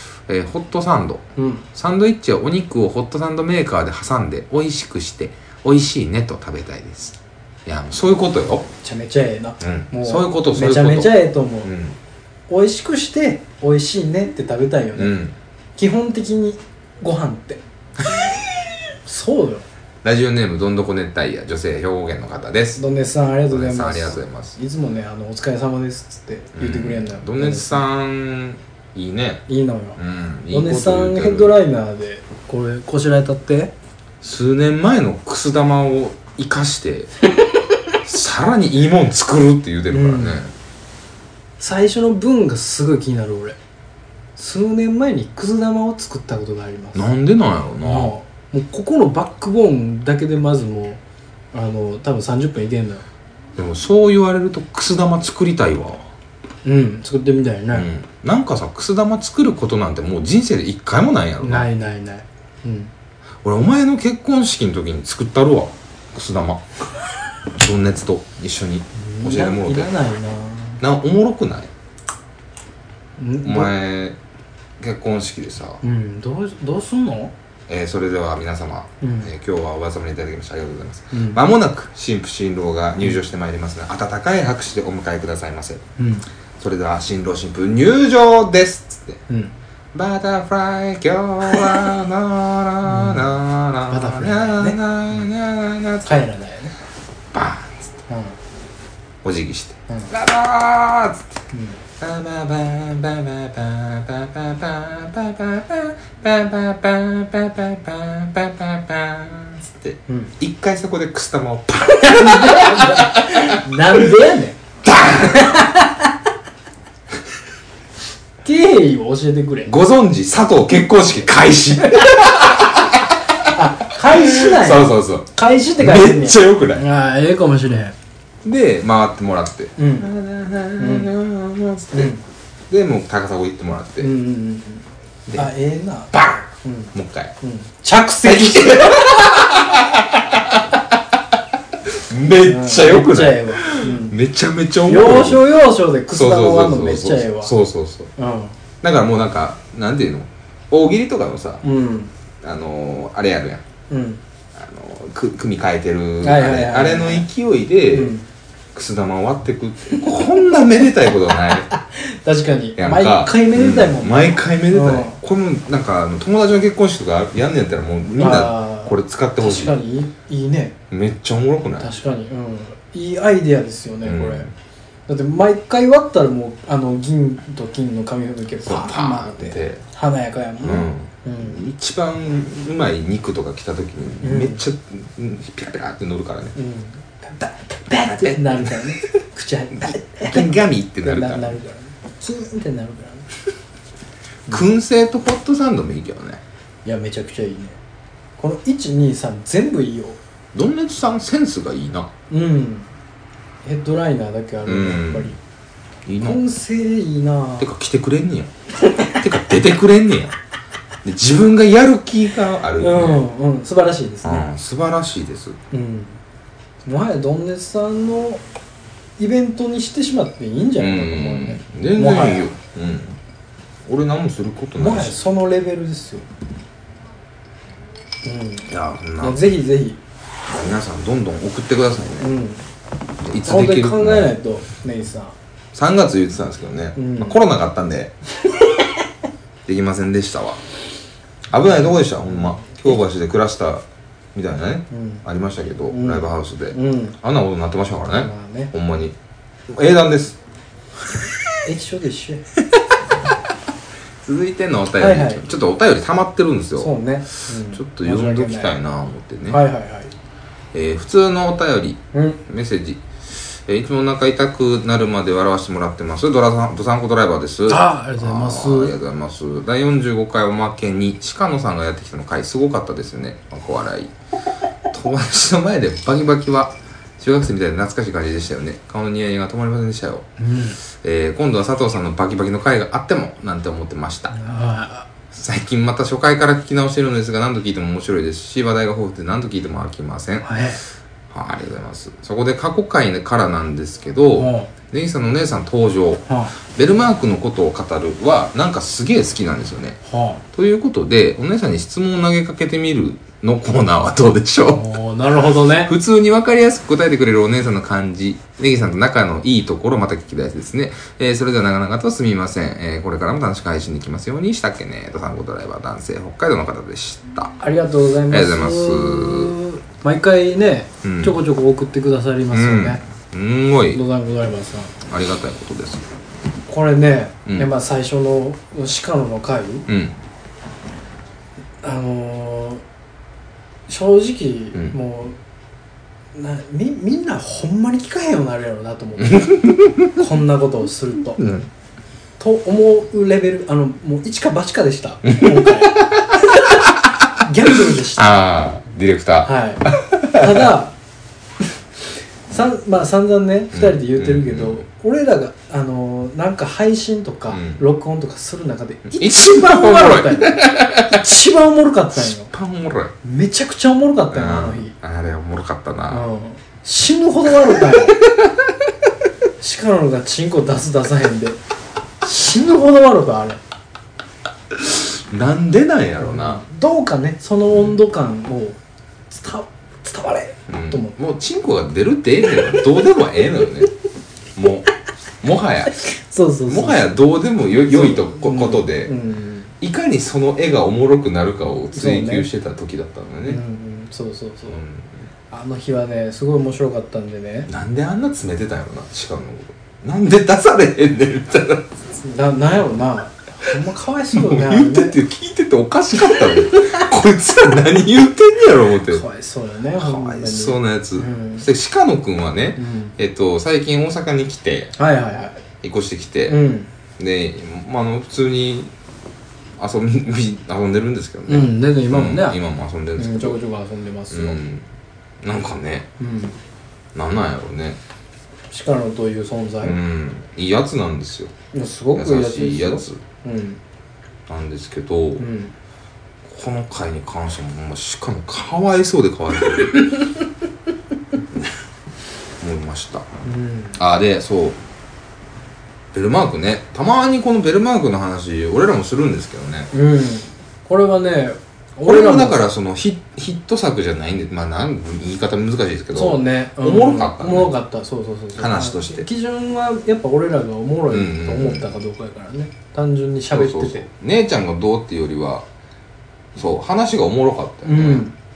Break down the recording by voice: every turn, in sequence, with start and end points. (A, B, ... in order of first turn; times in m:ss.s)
0:00.3-0:08.7 A
0:01.4-0:01.6 B
0:08.8-0:11.7 B
0:09.6-0:12.0 A
0:12.5-0:15.2 B
0:15.0-0:15.3 A
0:15.8-0:17.6 B
0:19.0-0:19.6 B
0:20.0-0:22.8 A
0:22.8-0:27.8 B
0:23.5-0:24.6 A
0:26.6-0:29.4 A
0:29.5-0:30.0 B
0:30.0-0:31.6 A
0:30.5-0:33.7 B
0:34.2-0:37.1 A
0:38.0-0:40.5 A
0:39.9-0:40.4 B
0:41.6-0:43.6 B
0:44.4-0:47.1 B
0:46.9-0:48.1 A
0:47.8-0:51.0 B
0:51.5-0:53.0 B
0:53.6-0:56.1 A
0:56.6-0:57.9 B
0:57.7-1:01.7 A
1:01.4-1:02.9 B
1:03.4-1:06.8 A
1:07.5-1:09.9 A
1:09.0-1:10.8 B
1:10.8-1:11.7 A
1:13.2-1:13.7 B
1:13.4-1:14.2 A
1:14.8-1:15.8 A
1:15.8-1:17.3 B
1:17.7-1:25.8 A
1:19.0-1:19.3 B
1:21.1-1:21.4 B
1:26.0-1:26.2 B
1:26.6-1:29.2 A
1:29.9-1:36.2 A
1:32.9-1:33.3 B
1:33.9-1:34.8 B
1:36.0-1:36.8 B
1:37.3-1:38.0 A
1:38.1-1:38.4 B
1:39.2-1:41.4 A
1:41.5-1:41.8 B
1:42.0-1:53.6 A
1:50.1-1:50.3 B
1:52.0-1:54.6 B
1:54.8-1:55.6 A
1:55.2-1:56.1 B
1:58.4-1:59.8 B
1:59.7-2:06.8 A
2:03.5-2:08.0 B
2:08.4-2:12.1 A
2:09.8-2:10.1 B
2:10.8-2:11.1 B
2:11.9-2:12.2 B
2:12.7-2:14.1 A
2:14.0-2:19.3 B
2:15.3-2:15.5 A
2:16.1-2:17.3 A
2:18.2-2:21.0 A
2:21.9-2:25.5 A
2:22.4-2:24.2 B
2:24.9-2:27.5 B
2:26.1-2:28.1 A
2:28.2-2:28.6 B
2:28.8-2:31.6 A
2:31.6-2:32.1 B
2:32.4-2:33.6 A
2:33.9-2:34.2 B
2:34.6-2:38.1 A
2:36.2-2:37.3 B
2:37.9-2:38.2 B
2:38.7-2:41.7 A
2:41.7-2:45.2 B
2:42.8-2:49.8 A
2:48.2-2:50.8 B
2:50.9-2:51.9 A
2:51.8-2:54.4 B
2:54.0-2:54.5 A
2:55.1-3:01.6 B
2:58.6-2:59.8 A
3:00.6-3:06.6 A
3:04.2-3:04.6 B
3:06.6-3:13.3 B
3:07.4-3:09.1 A
3:09.8-3:11.6 A
3:14.5-3:16.4 A
3:16.8-3:17.8 B
3:18.4-3:20.2 B
3:20.5-3:22.1 A
3:22.3-3:22.9 B
3:23.6-3:25.4 B
3:24.6-3:25.4 A
3:26.1-3:26.4 A
3:26.2-3:27.7 B
3:27.6-3:28.5 A
3:28.9-3:29.2 B
3:29.2-3:30.4 A
3:31.0-3:33.3 A
3:32.8-3:34.5 B
3:34.2-3:35.6 A
3:35.7-3:36.2 B
3:36.9-3:38.4 B
3:39.2-3:42.5 B
3:40.8-3:43.2 A
3:43.8-3:45.2 A
3:44.8-3:46.2 B
3:48.2-3:50.0 B
3:48.7-3:49.4 A
3:50.5-3:52.3 A
3:52.2-3:52.6 B
3:53.2-3:54.4 A
3:53.4-3:55.4 B
3:55.7-3:58.1 A
3:57.0-3:57.4 B
3:59.7-4:00.6 A
4:01.5-4:03.8 A
4:02.3-4:02.9 B
4:04.3-4:09.2 A
4:04.9-4:05.2 B
4:05.9-4:07.2 B
4:08.2-4:08.7 B
4:09.7-4:10.4 A
4:11.6-4:12.4 B
4:14.2-4:17.0 A
4:15.0-4:15.4 B
4:16.8-4:18.7 B
4:17.7-4:19.6 A
4:19.5-4:20.1 B
4:20.7-4:34.1 A
4:22.1-4:22.4 B
4:27.7-4:28.9 B
4:34.9-4:40.3 A
4:40.4-4:40.8 B
4:40.8-4:44.3 A
4:44.3-4:45.1 B
4:45.3-4:50.6 A
4:50.4-4:50.8 B
4:51.3-5:00.0 A
4:54.4-4:54.7 B
4:56.3-4:56.5 B
5:00.0-5:00.4 B
5:00.5-5:05.0 A
5:04.7-5:05.9 B
5:05.7-5:17.6 A
5:17.6-5:23.0 B
5:18.3-5:19.6 A
5:21.0-5:21.4 A
5:22.5-5:24.0 A
5:23.9-5:24.9 B
5:25.1-5:26.0 A
5:26.7-5:29.9 B
5:29.9-5:30.2 A
5:31.8-5:32.8 B
5:33.9-5:35.4 B
5:36.4-5:41.4 B
5:39.3-5:40.2 A
5:41.4-5:41.7 A
5:42.4-5:46.9 B
5:45.3-5:47.3 A
5:47.4-5:48.4 B
5:47.9-5:50.6 A
5:49.4-5:51.0 B
5:52.5-6:02.5 B
5:53.7-5:54.8 A
5:57.5-5:57.8 A
5:59.1-6:01.3 A
6:02.2-6:03.2 A
6:03.2-6:04.9 B
6:04.3-6:06.3 A
6:06.1-6:08.2 B
6:07.9-6:08.5 A
6:09.6-6:11.6 B
6:12.2-6:13.6 B
6:14.7-6:16.6 A
6:16.2-6:18.8 B
6:19.3-6:21.2 B
6:20.7-6:23.9 A
6:24.6-6:24.9 A
6:25.4-6:26.0 A
6:26.0-6:27.1 B
6:26.7-6:29.2 A
6:27.9-6:29.7 B
6:29.8-6:33.6 A
6:31.9-6:32.5 B
6:33.5-6:34.8 B
6:34.7-6:35.2 A
6:35.5-6:37.7 B
6:37.7-6:42.0 A
6:42.2-6:45.2 B
6:44.3-6:49.2 A
6:49.1-6:51.7 B
6:50.0-6:54.9 A
6:52.8-6:53.2 B
6:55.0-6:55.6 B
6:55.8-6:56.6 A
6:56.5-6:56.9 B
6:57.2-6:58.9 A
6:59.8-7:03.6 A
7:01.5-7:02.6 B
7:03.2-7:04.6 B
7:04.3-7:04.9 A
7:05.4-7:06.1 A
7:06.2-7:06.6 B
7:07.1-7:08.0 A
7:08.7-7:10.0 B
7:09.8-7:11.5 A
7:11.7-7:13.8 B
7:12.1-7:13.2 A
7:14.5-7:15.5 A
7:15.4-7:15.7 B
7:16.4-7:20.3 A
7:22.6-7:23.3 A
7:23.4-7:24.0 B
7:24.0-7:24.8 A
7:26.1-7:29.9 A
7:29.9-7:32.6 B
7:32.0-7:37.7 A
7:36.1-7:44.0 B
7:38.6-7:39.3 A
7:41.1-7:41.9 A
7:43.5-7:45.6 A
7:46.6-7:48.3 A
7:47.8-7:48.4 B